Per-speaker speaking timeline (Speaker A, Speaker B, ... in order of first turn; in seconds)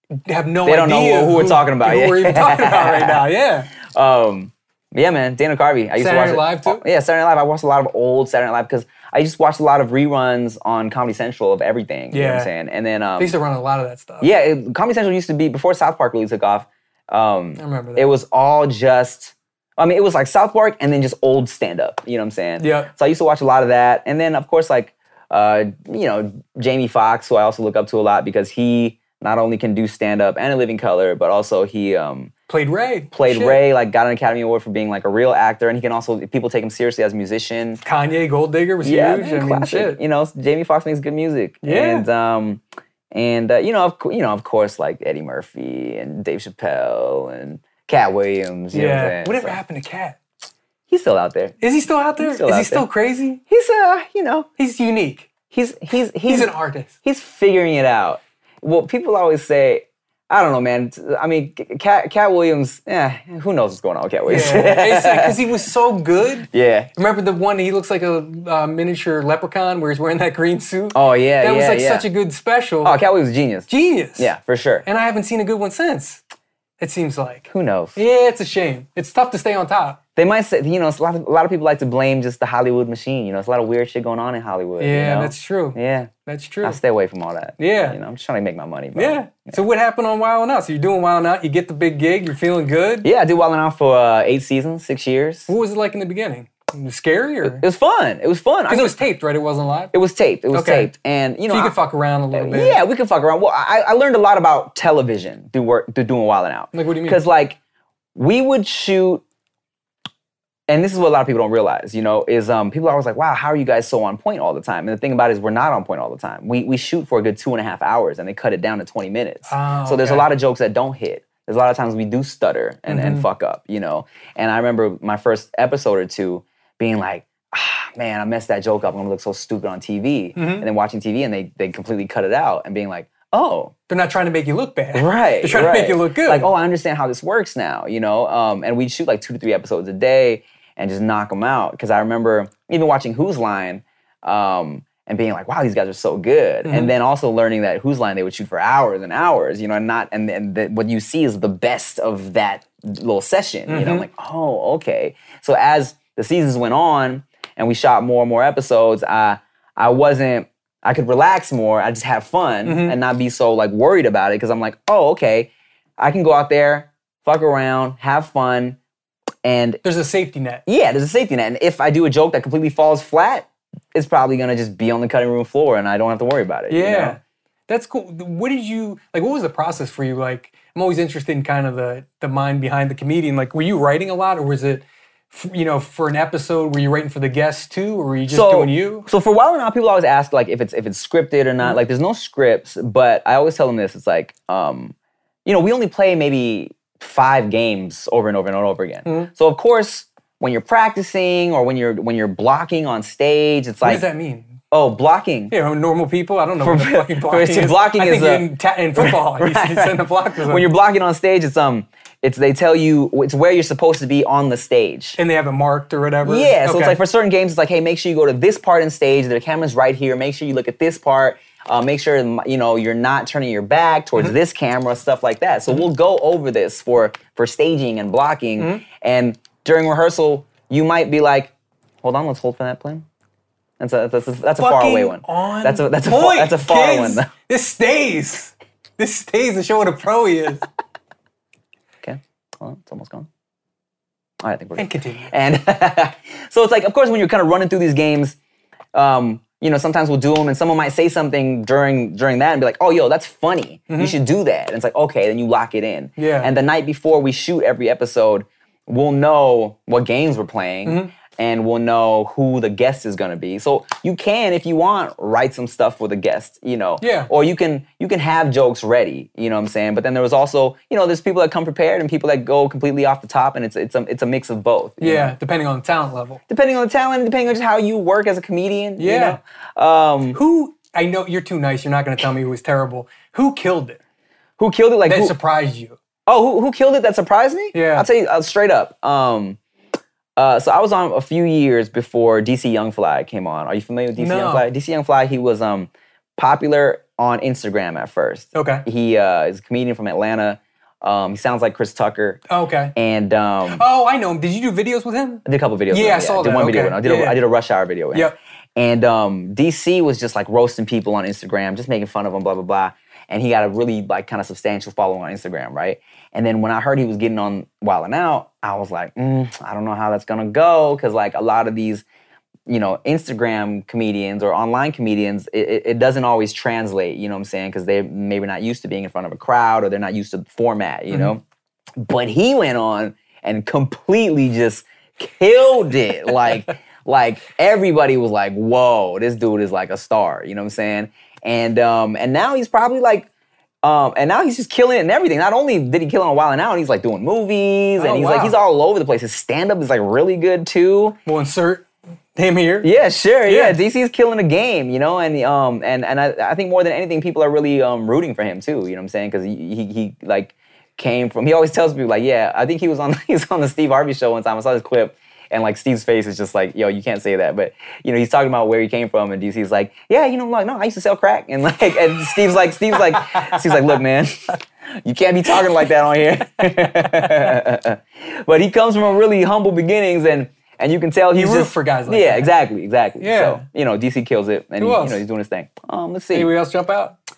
Speaker A: 0.1-3.7, 6.0-6.8, 12.1-12.5, 13.2-14.3, 17.6-18.1, 22.6-22.9, 32.5-33.6, 37.8-40.0, 41.6-42.1, 48.7-50.2, 51.6-53.4, 54.6-55.3, 56.3-56.9, 64.3-73.0, 73.7-74.3, 74.8-76.2, 76.8-80.0, 84.8-86.8, 87.6-88.0, 89.0-93.1, 95.5-97.6, 98.7-99.9, 100.5-100.9, 101.5-102.8, 106.7-107.2, 119.5-120.3, 122.9-123.2, 130.4-130.7, 133.9-136.5, 146.7-146.9, 153.7-154.1, 162.7-163.0, 169.8-170.6, 176.7-189.1, 199.1-199.3, 203.8-204.6, 205.5-210.7, 215.2-217.0, 228.6-228.8, 234.6-240.7, 244.8-245.3, 253.9-254.2, 256.2-256.5, 260.9-261.1, 267.0-267.3, 275.0-276.4, 279.0-279.4, 280.3-284.0, 285.1-286.0, 287.7-288.1, 294.2-294.6, 298.5-298.9, 302.5-302.9, 303.7-307.4, 348.0-348.6, 351.3-352.9, 353.5-353.8, 372.9-373.8, 376.8-377.6, 381.3-382.5, 383.2-383.6, 384.8-385.2, 386.3-387.2
Speaker B: 0.7-3.2, 3.8-13.3, 14.2-32.3, 33.1-37.8, 38.8-49.6, 50.9-51.6, 52.2-52.9, 53.5-54.5, 55.5-65.4, 66.5-66.9, 70.9-72.1, 72.8-74.9, 77.5-78.0, 80.2-86.1, 86.6-89.6, 93.0-95.5, 97.4-99.0, 99.9-101.8, 102.3-107.6, 108.2-109.2, 110.7-133.7, 134.9-168.8, 169.4-169.8, 170.7-177.2, 188.3-194.9, 195.4-204.1, 204.7-205.5, 206.6-215.2, 216.2-231.5, 232.0-233.1, 233.8-237.3, 242.0-243.3, 244.4-248.4, 248.9-275.4, 276.5-280.4, 284.6-285.4, 286.3-289.6, 290.4-302.4, 302.9-303.8, 305.4-322.0, 322.7-331.4, 332.0-343.3, 343.8-351.2, 352.8-386.5